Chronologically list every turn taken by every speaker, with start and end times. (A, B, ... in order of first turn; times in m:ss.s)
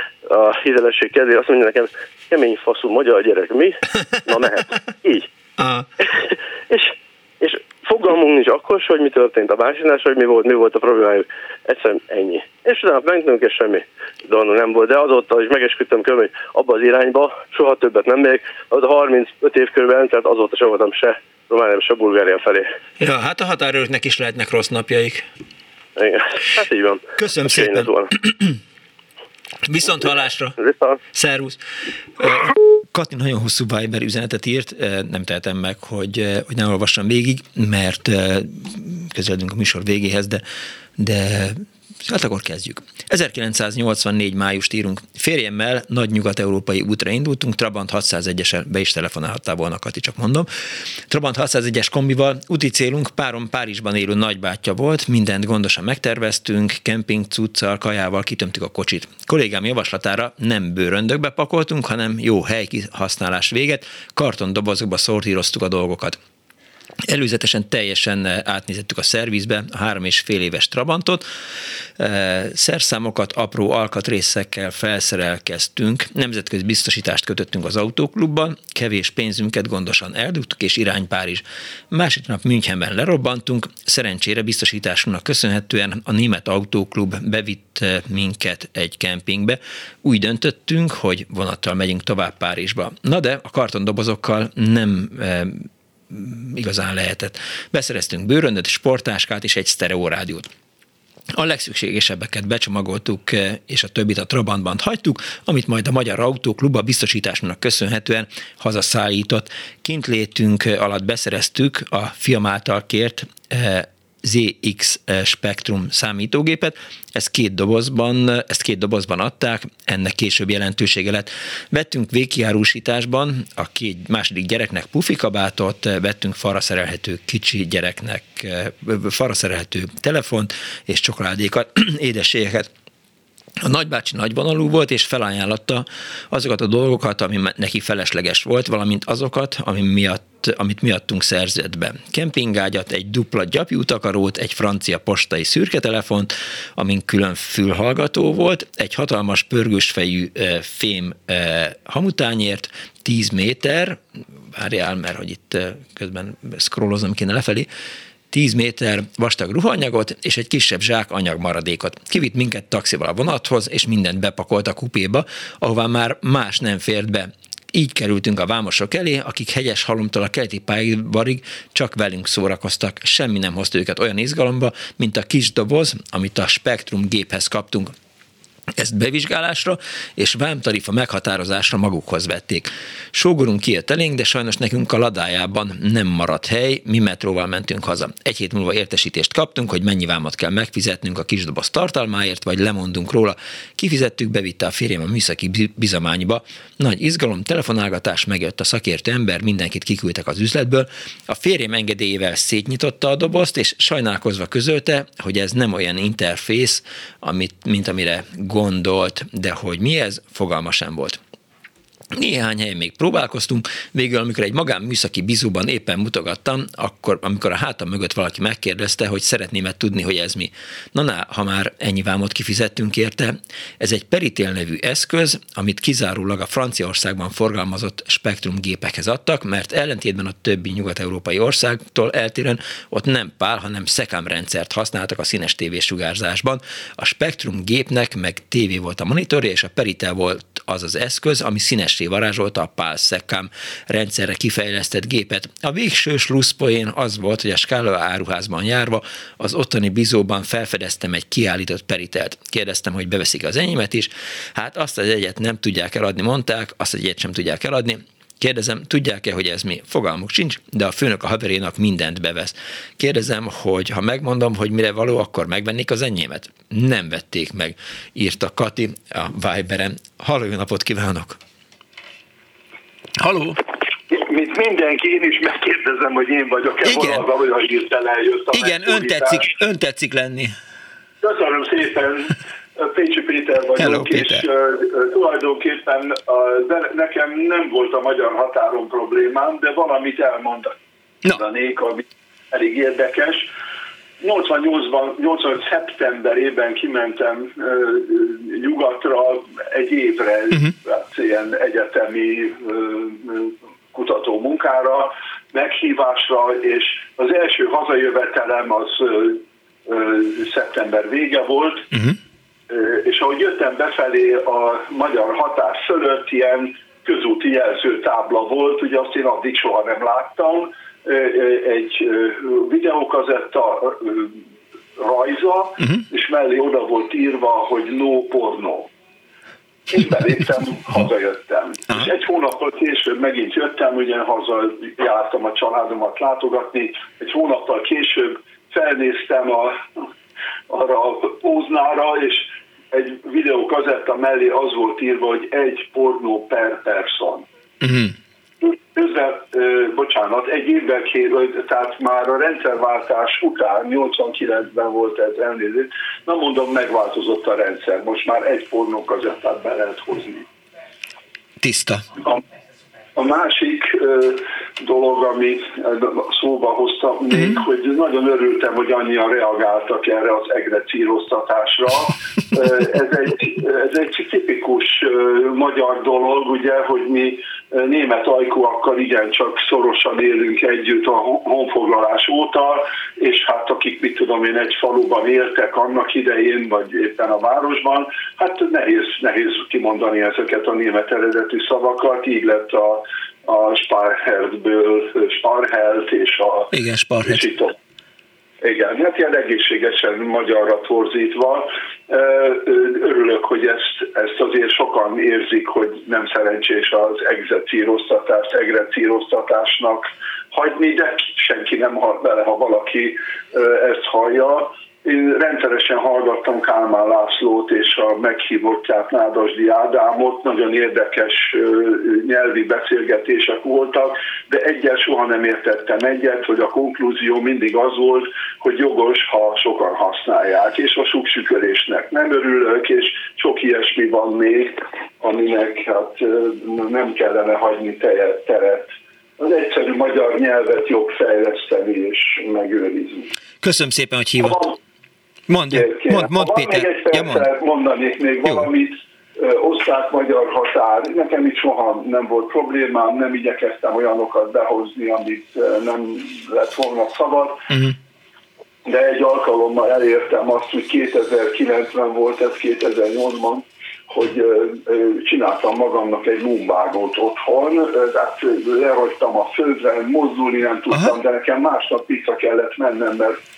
0:00.3-0:05.3 A
0:05.6-0:05.9 B
0:06.0-0:22.7 A
0:23.0-0:25.2 B
0:26.0-0:28.1 A
0:27.2-0:28.6 B
0:29.6-0:30.6 B
0:30.6-0:31.0 A
0:31.1-0:31.6 B
0:32.2-0:40.4 B
0:41.0-0:50.5 B
0:51.1-1:06.2 B
1:07.1-1:11.2 B
1:12.0-1:40.5 B
1:41.4-2:12.7 B
2:13.6-2:34.0 B
2:34.5-2:37.7 B
2:38.3-2:57.9 B
2:58.8-3:31.2 B
3:32.1-4:31.4 B
4:33.2-4:33.6 B
4:34.1-4:39.5 C
4:36.8-4:37.2 B
4:38.5-4:40.5 B
4:41.2-4:50.8 C
4:43.8-4:44.4 B
4:51.3-4:53.5 C
4:54.2-5:11.9 C
5:12.7-5:24.4 C
5:25.0-5:28.9 C
5:29.9-5:39.8 C
5:40.7-5:47.5 C
5:47.8-5:48.1 B
5:48.6-6:00.5 C
6:01.6-6:02.1 B
6:03.2-6:37.8 C
6:36.7-6:37.5 B
6:38.6-7:23.3 C
7:23.6-7:24.8 B
7:25.5-7:27.5 B
7:25.7-7:37.6 C
7:38.9-7:53.4 C